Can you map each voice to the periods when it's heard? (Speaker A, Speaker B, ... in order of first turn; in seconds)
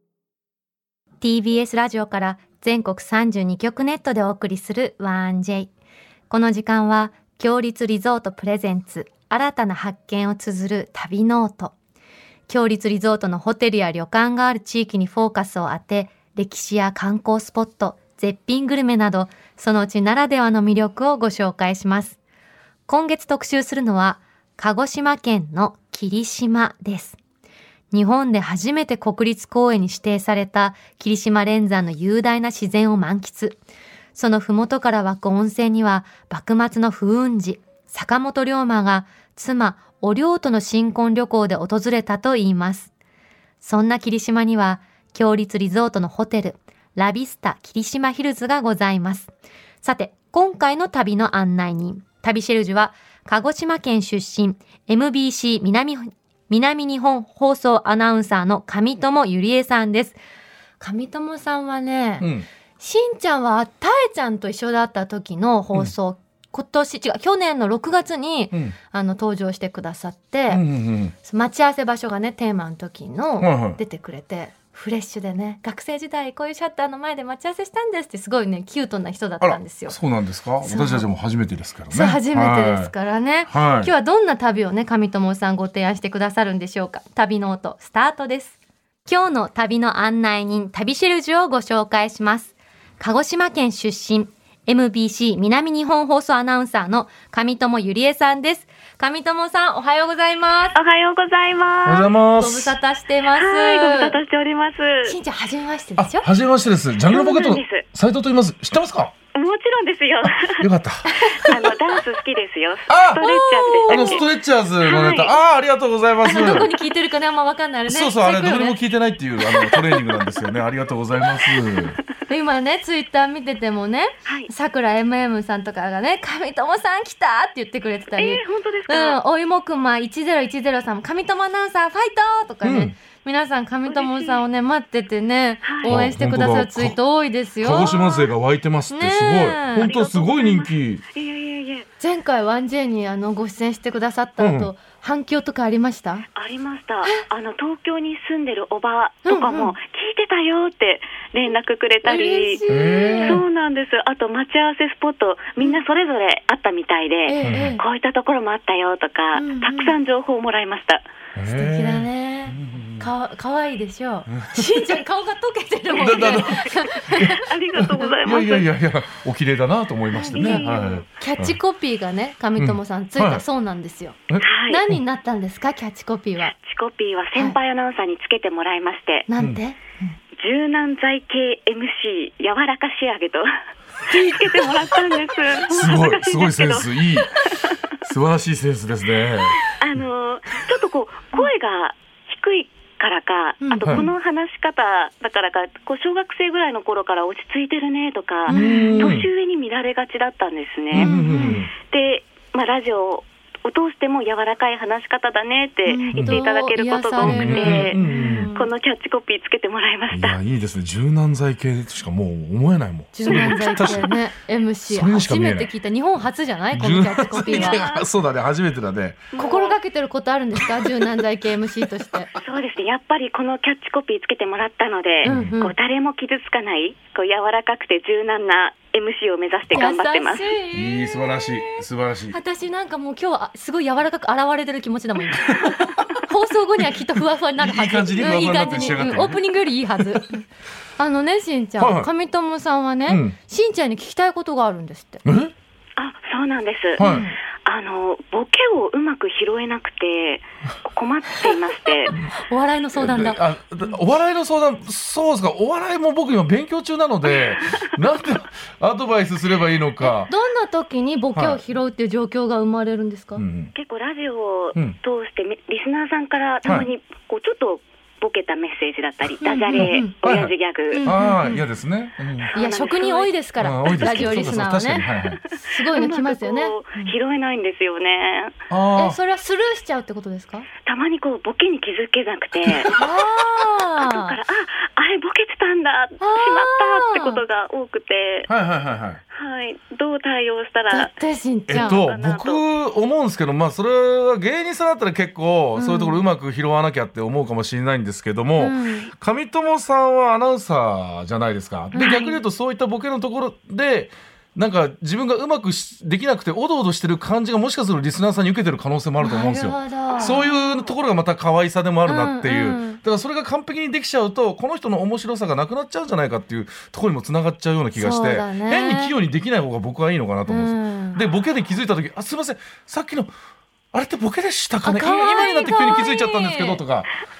Speaker A: 1.2-5.7, 6.3-11.8, 12.5-22.2, 22.9-27.2, 27.9-33.6, 34.1-42.9, 43.6-49.3, 49.8-60.2, 60.8-62.3, 62.8-70.6, 71.2-80.0, 80.6-81.1, 81.9-100.8, 102.4-104.2, 105.0-106.3, 111.1-111.4, 113.2-114.2, 114.8-115.3, 116.2-118.8, 119.5-119.8, 122.3-138.1, 138.9-139.9, 142.0-146.3, 149.3-149.7, 152.1-153.4, 157.3-157.8, 159.3-159.9, 161.5-168.1, 170.1-174.2, 174.7-176.5, 179.3-180.2, 184.1-185.1, 193.6-194.1, 198.5-199.2, 200.9-201.6, 205.9-208.7, 213.1-217.8, 219.4-222.3, 225.2-225.8, 229.7-240.4, 241.0-245.2, 247.0-247.4, 251.9-253.4, 260.0-263.4, 269.4-270.1, 270.9-271.6, 272.6-277.1, 278.9-280.7, 282.9-284.4, 286.2-287.4, 290.9-292.0, 295.8-296.2, 298.6-299.1, 301.9-302.4, 309.2-310.5, 312.1-313.0, 318.0-319.1, 320.5-321.2, 324.8-326.8
Speaker B: 62.2-62.5, 70.5-71.2, 73.4-73.8, 79.4-82.9, 83.5-83.9, 101.8-102.8, 106.0-109.1, 110.2-111.8, 112.9-113.2, 113.8-116.7, 117.9-122.0, 132.6-132.9, 135.8-137.0, 137.6-141.0, 144.4-144.7, 152.7-153.4, 157.4-157.8, 161.3-163.1, 164.3-165.0, 165.9-171.6, 172.6-173.4, 174.3-175.0, 185.7-190.0, 198.5-199.3, 200.9-201.7, 206.2-206.4, 207.2-208.5, 210.1-214.1, 214.9-215.7, 216.7-219.3, 220.6-221.2, 221.8-222.4, 225.2-225.5, 230.7-232.4, 235.4-236.2, 237.6-240.4, 241.8-242.1, 243.1-243.4, 245.2-245.5, 247.0-247.3, 252.9-260.3, 261.4-261.6, 263.4-263.7, 266.6-266.9, 269.8-272.5, 273.6-275.4, 278.7-279.2, 282.6-283.0, 288.5-289.2, 291.7-323.3, 323.9-327.1
Speaker C: 100.8-102.1, 103.3-105.2, 107.1-107.9, 109.3-110.7, 111.3-114.3, 128.2-129.2, 133.9-134.4, 135.6-135.9, 137.8-138.1, 139.8-141.9, 146.3-161.0, 166.1-168.7, 170.3-171.1, 174.4-174.8, 176.5-179.3, 180.4-183.5, 184.1-188.0, 189.6-210.4, 213.3-214.0, 217.3-218.1, 219.3-219.8, 222.4-230.5, 246.0-252.2, 263.7-271.1, 272.4-273.4, 273.9-274.4, 275.6-278.6, 280.9-282.9, 284.0-288.5, 289.3-291.1, 291.7-292.6